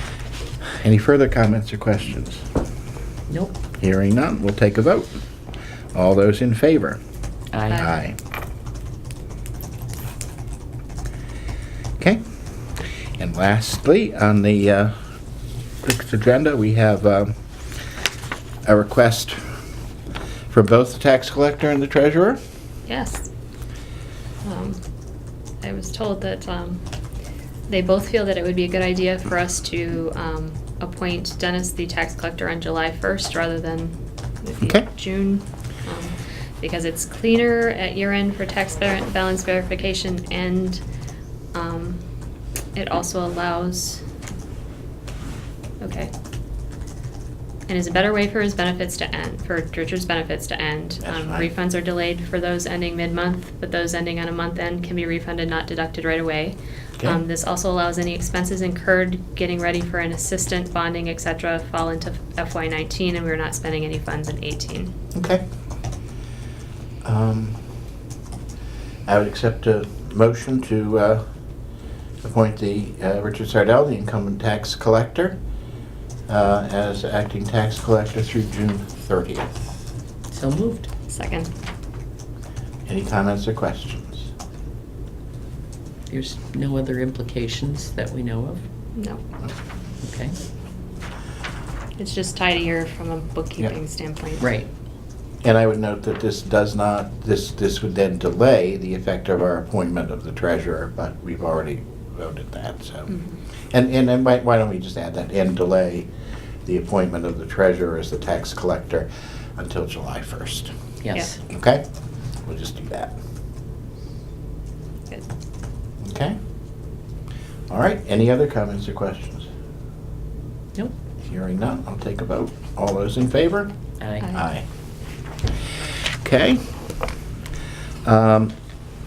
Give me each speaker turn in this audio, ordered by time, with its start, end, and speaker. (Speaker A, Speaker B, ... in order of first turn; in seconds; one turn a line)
Speaker A: 0.8-2.4
Speaker B: 3.3-3.5
Speaker A: 3.8-5.2
Speaker A: 5.9-7.0
Speaker B: 7.5-7.8
Speaker A: 7.8-8.2
Speaker A: 13.2-14.9
Speaker A: 15.8-17.3
Speaker A: 18.6-19.4
Speaker A: 20.5-22.4
Speaker C: 22.9-23.3
Speaker C: 24.4-24.8
Speaker C: 25.6-26.8
Speaker C: 27.7-40.8
Speaker A: 34.6-34.9
Speaker C: 41.5-42.0
Speaker C: 42.7-44.0
Speaker C: 45.8-46.1
Speaker C: 47.7-64.9
Speaker A: 51.0-51.5
Speaker A: 65.1-65.4
Speaker A: 67.0-67.6
Speaker A: 69.0-71.2
Speaker A: 72.2-75.4
Speaker A: 76.3-79.5
Speaker B: 80.3-80.9
Speaker C: 81.1-81.5
Speaker A: 82.9-84.3
Speaker B: 86.1-88.6
Speaker C: 88.9-89.2
Speaker B: 90.0-90.3
Speaker C: 92.0-94.5
Speaker B: 94.4-94.7
Speaker A: 95.4-103.1
Speaker C: 103.1-103.4
Speaker A: 103.7-106.1
Speaker A: 106.6-110.7
Speaker B: 111.0-111.4
Speaker A: 111.5-111.8
Speaker A: 112.4-113.2
Speaker A: 116.0-116.3
Speaker A: 117.7-119.5
Speaker A: 121.2-124.6
Speaker B: 124.0-124.2
Speaker C: 124.2-124.5
Speaker A: 126.2-126.8
Speaker A: 128.0-128.5